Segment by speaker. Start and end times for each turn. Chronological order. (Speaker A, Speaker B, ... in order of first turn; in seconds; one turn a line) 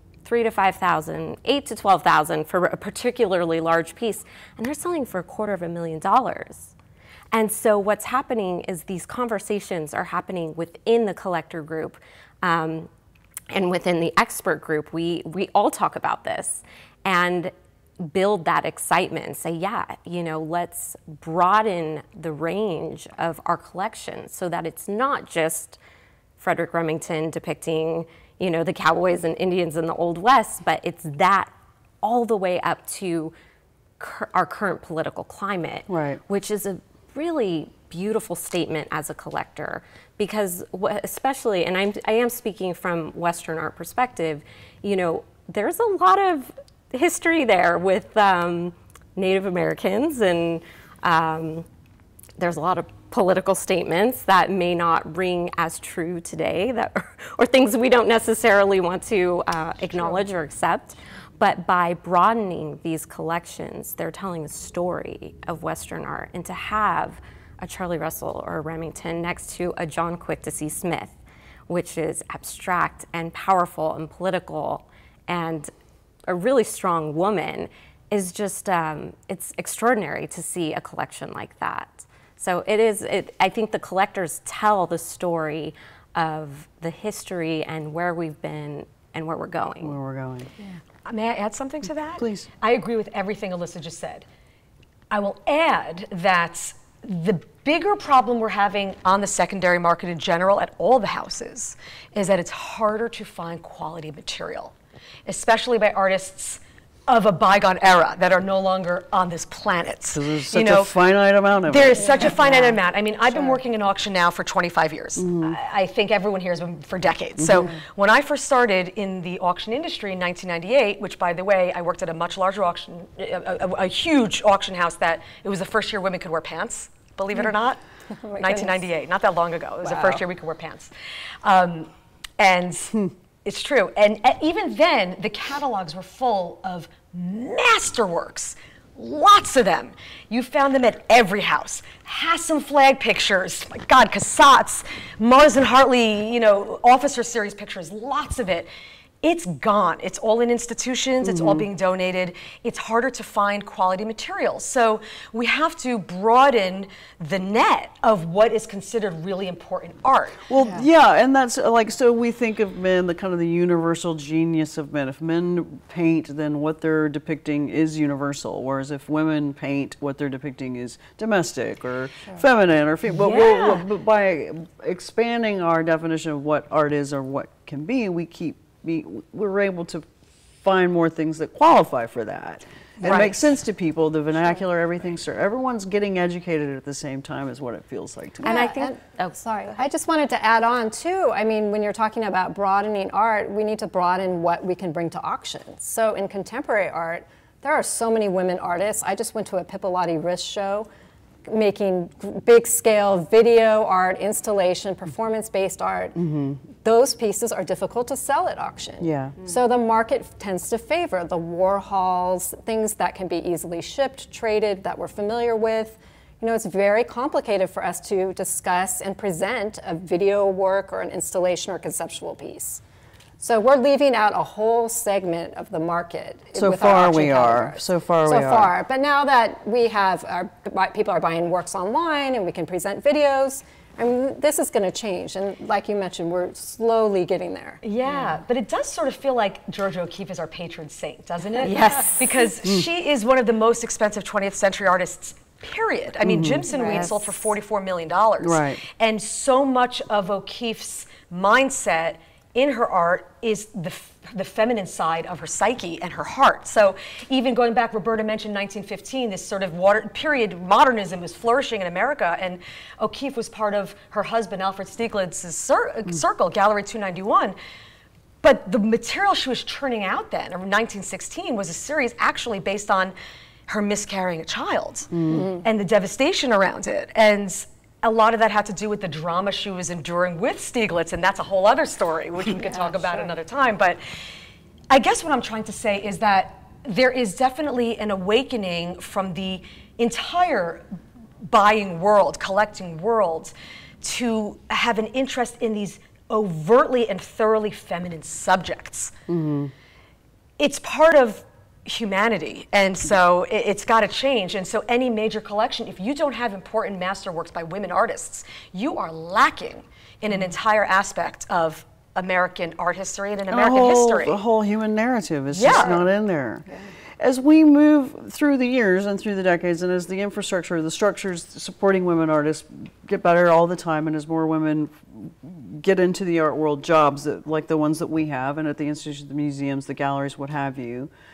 Speaker A: 0.2-6.7
Speaker A: 7.3-12.9
Speaker A: 13.5-25.8
Speaker A: 26.4-31.5
Speaker A: 32.0-33.3
Speaker A: 34.0-51.6
Speaker B: 35.9-36.2
Speaker A: 52.4-71.2
Speaker A: 71.7-75.7
Speaker A: 76.3-89.9
Speaker B: 89.8-90.5
Speaker C: 91.0-94.2
Speaker B: 92.2-92.5
Speaker C: 95.1-104.7
Speaker C: 105.2-111.0
Speaker B: 110.1-112.8
Speaker C: 111.6-127.8
Speaker B: 115.2-115.5
Speaker B: 117.4-117.7
Speaker D: 128.2-128.8
Speaker C: 128.4-130.9
Speaker D: 129.8-130.2
Speaker C: 131.4-148.7
Speaker C: 149.2-160.4
Speaker B: 151.2-151.7
Speaker B: 160.5-180.1
Speaker C: 173.2-173.8
Speaker B: 180.6-188.6
Speaker C: 183.0-183.4
Speaker A: 188.4-189.3
Speaker D: 188.4-200.9
Speaker D: 201.4-206.2
Speaker B: 206.2-206.6
Speaker D: 206.8-222.8
Speaker B: 209.0-209.4
Speaker D: 223.4-237.8
Speaker B: 226.6-228.7
Speaker C: 237.8-267.6
Speaker A: 241.6-242.4
Speaker B: 246.2-246.7
Speaker A: 246.7-247.3
Speaker D: 246.7-247.0
Speaker B: 248.4-248.8
Speaker C: 268.4-273.1
Speaker C: 273.7-284.0
Speaker B: 275.1-275.5
Speaker C: 284.9-290.9
Speaker C: 291.4-299.1
Speaker B: 299.3-299.7
Speaker C: 300.6-314.4
Speaker B: 313.5-316.6
Speaker C: 315.5-316.0
Speaker B: 317.2-331.1